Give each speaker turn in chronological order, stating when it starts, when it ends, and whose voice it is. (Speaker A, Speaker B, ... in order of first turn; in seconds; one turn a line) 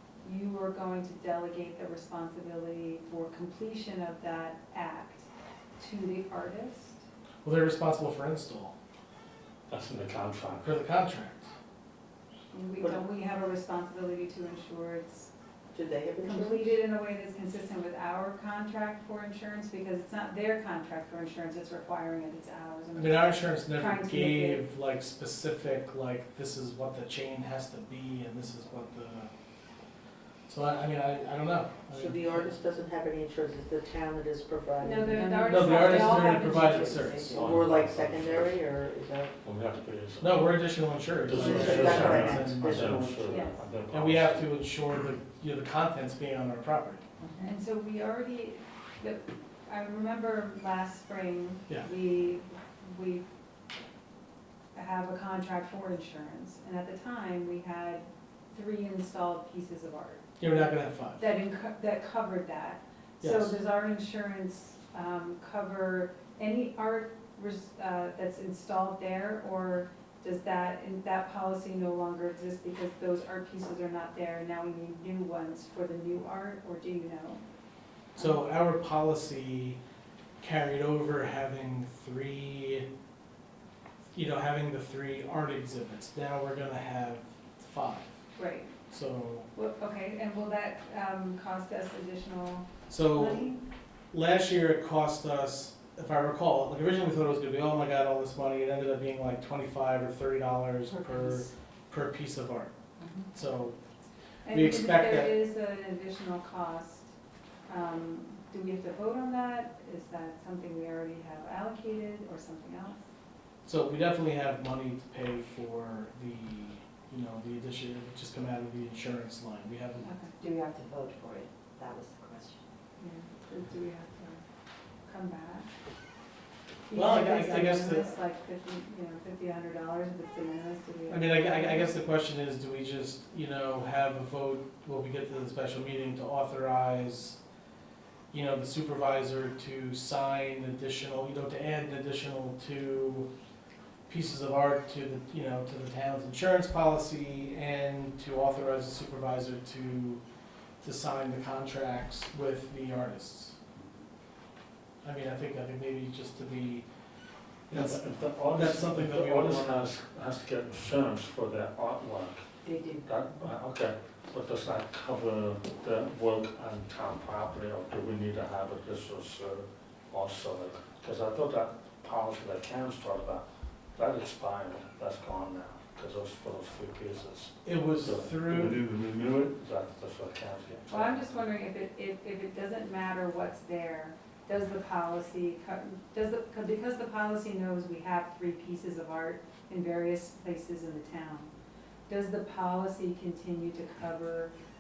Speaker A: 0.2-7.1
Speaker B: 7.4-8.7
Speaker C: 9.7-10.7
Speaker B: 10.6-11.5
Speaker A: 12.5-15.3
Speaker D: 15.7-16.8
Speaker A: 16.2-24.6
Speaker B: 22.9-29.3
Speaker B: 30.5-32.5
Speaker D: 31.9-36.2
Speaker A: 34.8-37.3
Speaker B: 35.4-37.4
Speaker E: 36.2-36.7
Speaker D: 36.9-39.4
Speaker C: 37.2-38.6
Speaker C: 39.4-40.4
Speaker B: 40.2-43.3
Speaker C: 41.2-44.5
Speaker D: 41.3-43.4
Speaker A: 43.3-43.6
Speaker B: 43.9-47.0
Speaker A: 47.4-53.3
Speaker A: 54.7-60.2
Speaker B: 60.4-61.2
Speaker A: 61.2-77.4
Speaker B: 63.2-63.6
Speaker B: 78.2-79.8
Speaker B: 80.4-82.9
Speaker B: 84.2-88.1
Speaker A: 88.3-88.7
Speaker B: 88.9-89.5
Speaker A: 89.5-93.6
Speaker B: 92.9-93.5
Speaker B: 94.1-102.7
Speaker A: 103.0-103.3
Speaker B: 103.3-103.8
Speaker A: 104.5-107.1
Speaker B: 104.5-105.3
Speaker A: 107.7-113.0
Speaker B: 113.7-120.1
Speaker A: 120.0-120.4
Speaker E: 120.4-122.6
Speaker A: 123.0-124.4
Speaker A: 125.1-125.7
Speaker A: 126.9-131.9
Speaker B: 126.9-128.1
Speaker B: 131.1-137.4
Speaker B: 138.3-143.3
Speaker B: 144.1-150.2
Speaker B: 150.8-153.6
Speaker B: 155.0-156.8
Speaker C: 157.7-162.4
Speaker B: 157.7-159.9
Speaker C: 163.0-181.2
Speaker B: 177.7-178.8
Speaker A: 180.9-191.5
Speaker A: 192.1-194.5